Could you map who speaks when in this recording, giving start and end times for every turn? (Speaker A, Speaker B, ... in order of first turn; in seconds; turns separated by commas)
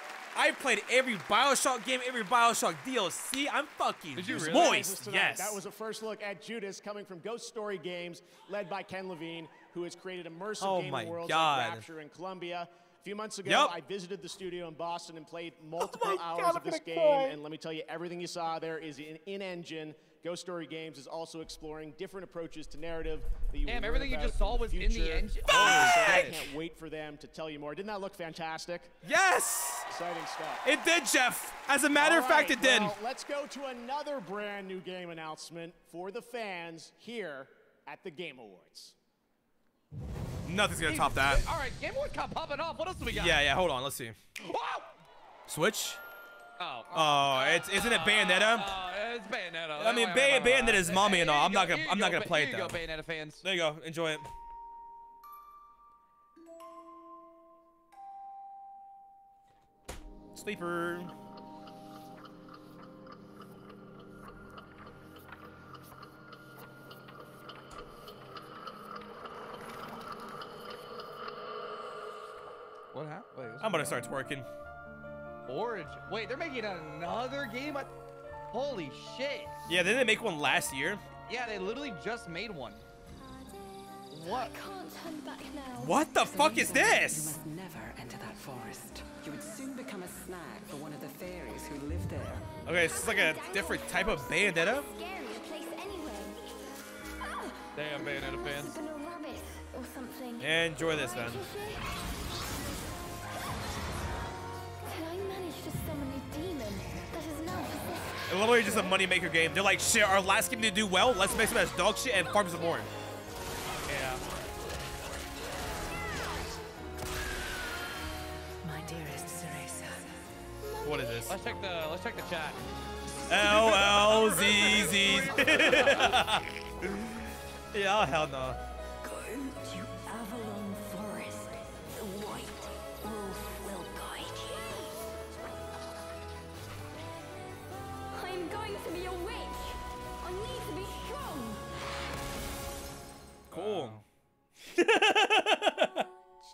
Speaker A: 0.3-5.6, Speaker B: 4.2-4.9, Speaker C: 4.3-28.9, Speaker A: 10.6-11.9, Speaker A: 13.4-13.7, Speaker A: 15.8-17.4, Speaker B: 23.6-26.5, Speaker A: 25.4-26.5, Speaker A: 29.0-29.9, Speaker C: 29.9-30.6, Speaker A: 30.6-33.0, Speaker C: 32.0-38.9, Speaker A: 40.5-41.4, Speaker B: 40.8-43.4, Speaker A: 43.1-44.2, Speaker B: 44.4-44.9, Speaker A: 45.5-46.0, Speaker B: 46.6-53.4, Speaker A: 46.9-48.7, Speaker A: 49.8-52.8, Speaker A: 53.4-54.3, Speaker A: 60.3-61.1, Speaker B: 72.9-74.0, Speaker A: 73.6-74.5, Speaker B: 75.5-77.9, Speaker B: 78.5-79.7, Speaker A: 79.7-81.0, Speaker B: 81.3-82.8, Speaker B: 84.1-84.5, Speaker A: 85.8-87.3, Speaker D: 86.2-92.5, Speaker A: 92.7-94.9, Speaker E: 92.7-96.4, Speaker B: 97.7-98.7, Speaker E: 98.6-100.0, Speaker A: 100.4-101.5, Speaker E: 101.1-101.5, Speaker A: 108.3-112.9, Speaker E: 112.4-112.8, Speaker B: 113.9-114.2, Speaker D: 118.6-120.1, Speaker A: 120.8-121.3, Speaker B: 121.3-122.6, Speaker A: 123.3-127.1, Speaker B: 123.5-126.2, Speaker A: 127.7-128.6, Speaker E: 138.3-138.8, Speaker E: 140.5-141.0, Speaker A: 143.5-144.0, Speaker B: 143.5-144.0, Speaker A: 144.7-146.0